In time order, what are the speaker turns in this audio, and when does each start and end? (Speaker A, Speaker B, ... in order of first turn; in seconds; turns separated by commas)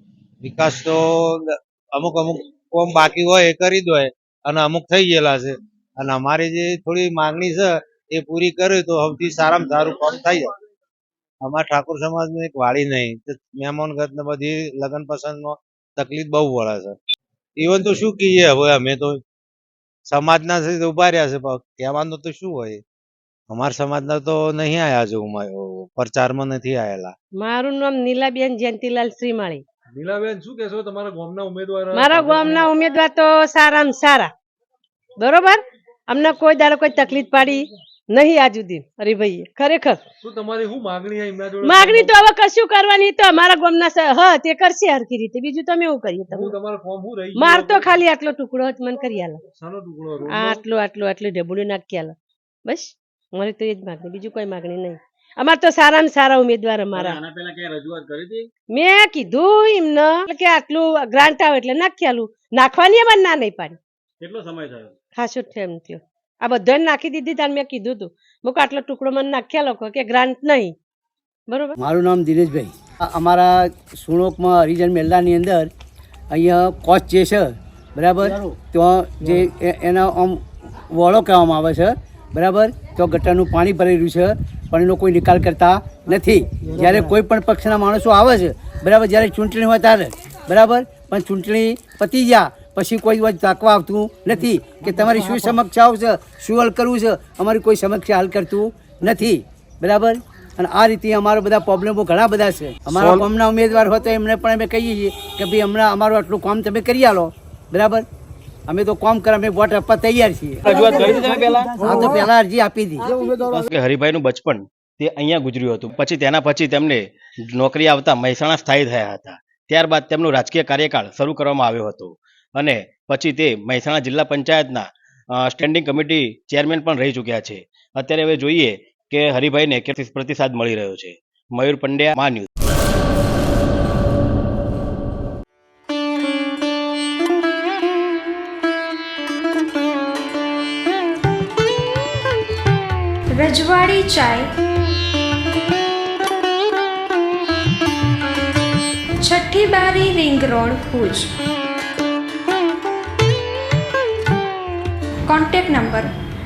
Speaker A: 0.4-10.5, Speaker A: 11.4-17.0, Speaker A: 17.6-19.2, Speaker A: 20.1-22.8, Speaker A: 23.5-27.1, Speaker B: 27.4-29.6, Speaker C: 29.9-32.7, Speaker B: 31.9-34.3, Speaker B: 35.2-40.0, Speaker C: 40.2-42.2, Speaker B: 41.6-46.5, Speaker C: 46.3-48.0, Speaker B: 47.4-49.4, Speaker C: 49.5-50.7, Speaker B: 50.3-52.1, Speaker B: 52.7-57.1, Speaker D: 56.9-58.5, Speaker B: 58.7-63.8, Speaker D: 64.2-64.9, Speaker B: 65.2-70.7, Speaker B: 71.5-71.7, Speaker E: 71.8-75.7, Speaker E: 76.3-108.0, Speaker E: 108.7-113.2, Speaker D: 110.6-111.7, Speaker D: 113.5-124.8, Speaker D: 125.4-132.5, Speaker F: 143.3-144.5, Speaker F: 149.2-151.3, Speaker F: 155.3-156.1